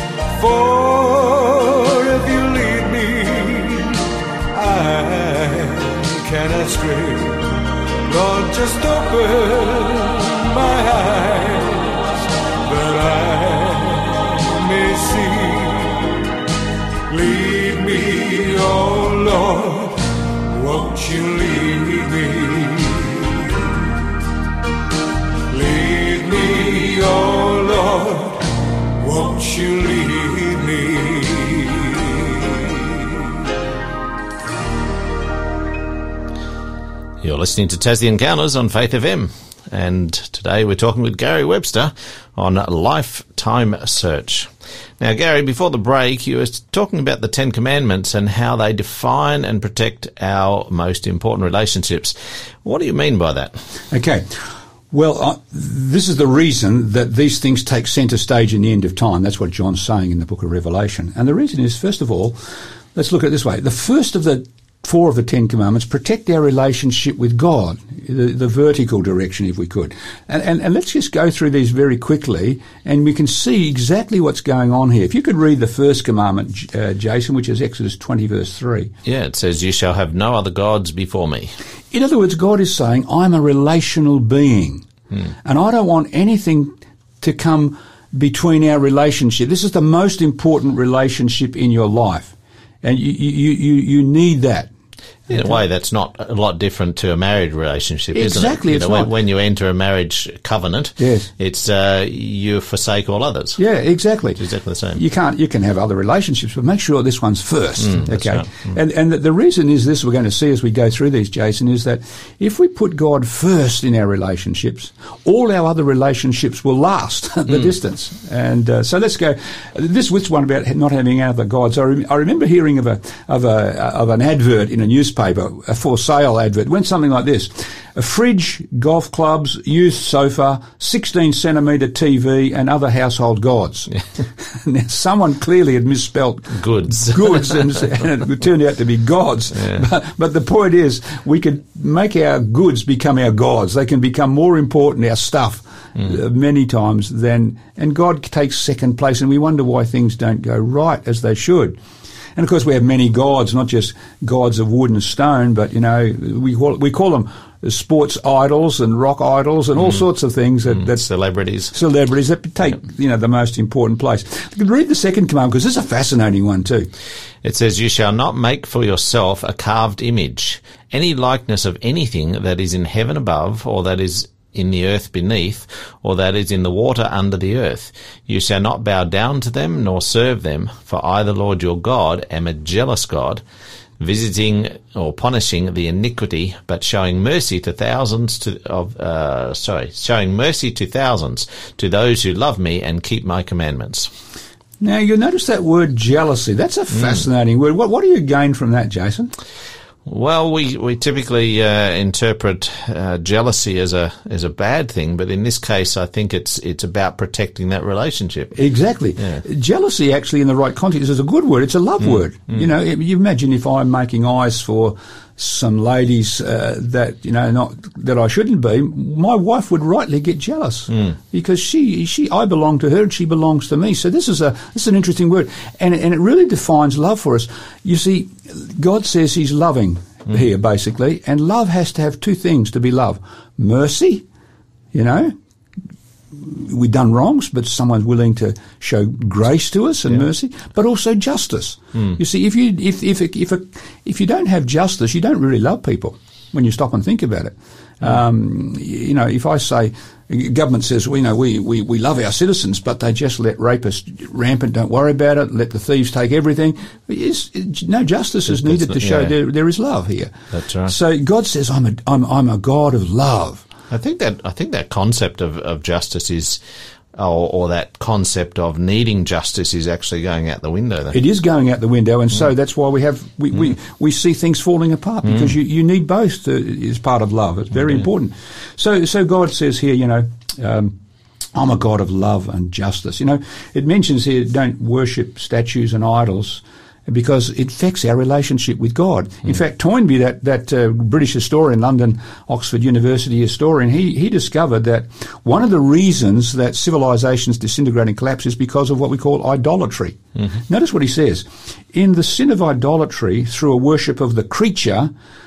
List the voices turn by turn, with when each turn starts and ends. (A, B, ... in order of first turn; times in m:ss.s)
0:00.3-0:12.0 A
0:12.6-0:16.1 A
0:17.1-0:23.8 A
0:25.5-0:28.4 A
0:29.0-0:33.1 A
0:37.2-0:53.6 B
0:53.9-0:54.3 C
0:54.9-1:02.4 C
1:02.9-1:18.9 C
1:19.0-1:21.5 B
1:21.9-1:24.8 C
1:25.4-1:34.7 C
1:35.3-1:35.6 C
1:35.3-1:43.6 B
1:38.1-1:39.1 C
1:41.0-1:41.3 C
1:43.6-1:44.4 C
1:44.4-1:45.0 B
1:44.9-2:31.8 C
1:47.8-1:48.5 B
2:16.6-2:17.5 B
2:32.4-2:41.0 C
2:40.7-2:41.7 B
2:41.7-2:46.9 C
2:47.4-3:03.4 B
3:04.0-3:14.1 B
3:14.8-3:19.3 C
3:20.0-3:28.5 B
3:28.5-3:54.2 C
3:54.9-3:55.3 C
3:56.3-4:20.3 C
4:18.5-4:19.3 B
4:20.5-4:20.9 B
4:20.8-4:23.6 C
4:23.9-4:26.6 B
4:27.1-4:31.2 B
4:31.1-4:41.0 C
4:41.5-5:05.1 C